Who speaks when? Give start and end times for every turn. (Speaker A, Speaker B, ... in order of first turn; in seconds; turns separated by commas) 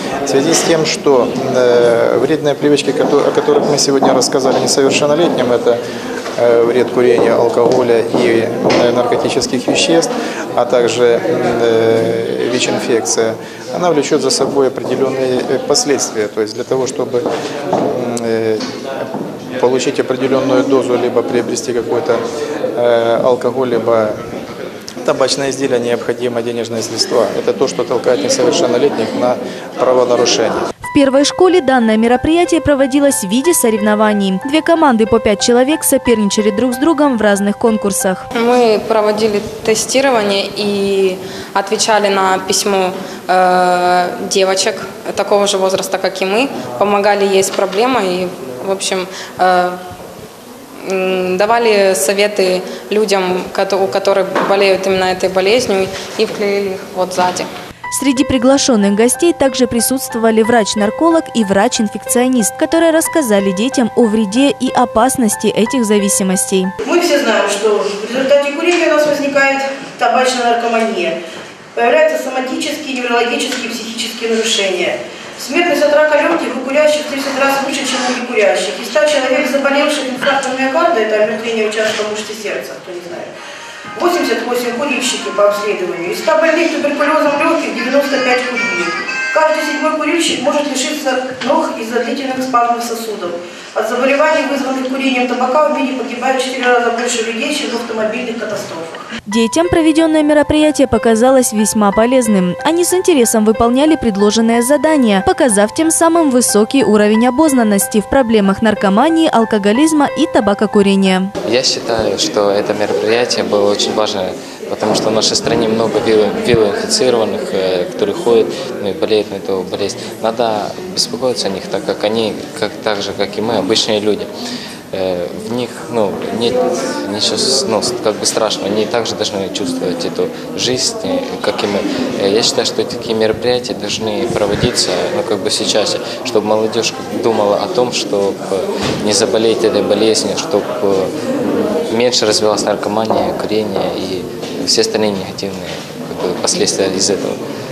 Speaker A: 0.3-5.8, Speaker A: 6.4-17.2, Speaker A: 17.9-19.1, Speaker A: 19.6-22.2, Speaker A: 22.8-24.2, Speaker A: 25.1-30.6, Speaker B: 30.9-38.2, Speaker C: 38.3-49.8, Speaker C: 50.8-57.5, Speaker B: 57.9-66.7, Speaker D: 66.8-71.2, Speaker D: 71.8-83.3, Speaker D: 84.0-99.1, Speaker B: 99.3-111.3, Speaker E: 111.5-124.3, Speaker E: 124.9-147.4